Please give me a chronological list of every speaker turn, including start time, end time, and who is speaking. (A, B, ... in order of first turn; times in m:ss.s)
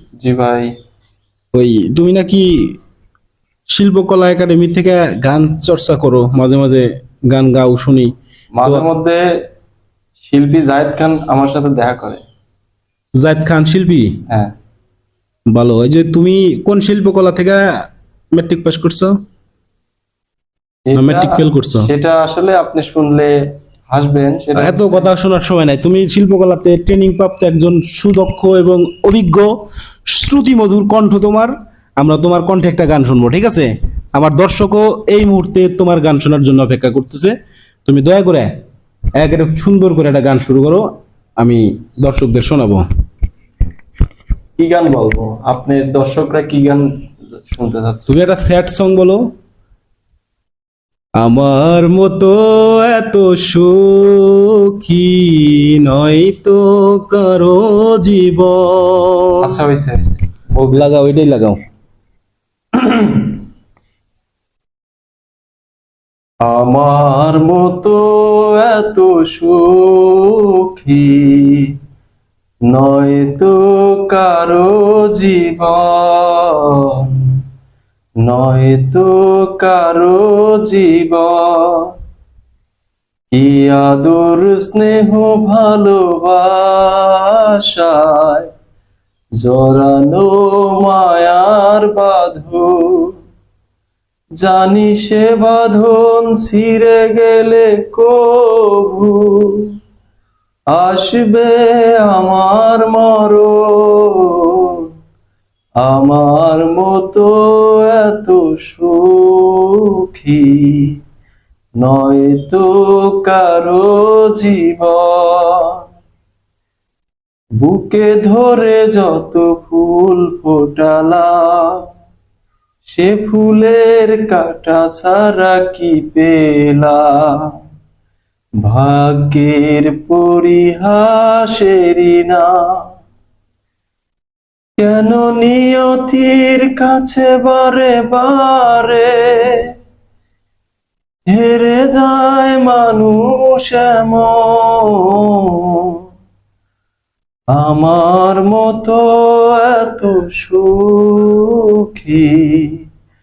0:00.2-0:00.7 A
0:01.5-0:02.5 B
0:03.7-0:08.1 B
0:08.5-0:09.2 A
0:10.2-0:12.2 A
0:13.2-0:14.1 B
0:14.3-0:14.5 A
0:15.5-0:17.6 B
0:18.3-0:19.1 B
0:20.9-0:23.3 A
0:21.0-0:21.9 B
0:23.9-0:25.1 A
0:24.6-0:29.5 B
0:30.1-0:37.3 B
0:37.8-0:38.5 B
0:39.2-0:40.8 B
0:41.4-0:42.8 B
0:44.6-0:48.1 A
0:48.1-0:49.2 B
0:51.2-0:59.3 B
0:59.4-1:00.9 A
1:00.7-1:01.6 B
1:06.4-1:11.7 A
1:12.7-1:17.3 A
1:18.2-1:21.9 A
1:23.3-1:28.5 A
1:29.4-1:33.2 A
1:34.4-1:39.7 A
1:40.7-1:44.8 A
1:45.8-1:51.0 A
1:51.8-1:55.8 A
1:57.6-2:01.8 A
2:02.9-2:07.5 A
2:08.6-2:12.6 A
2:14.8-2:19.6 A
2:21.3-2:25.9 A
2:27.5-2:32.7 A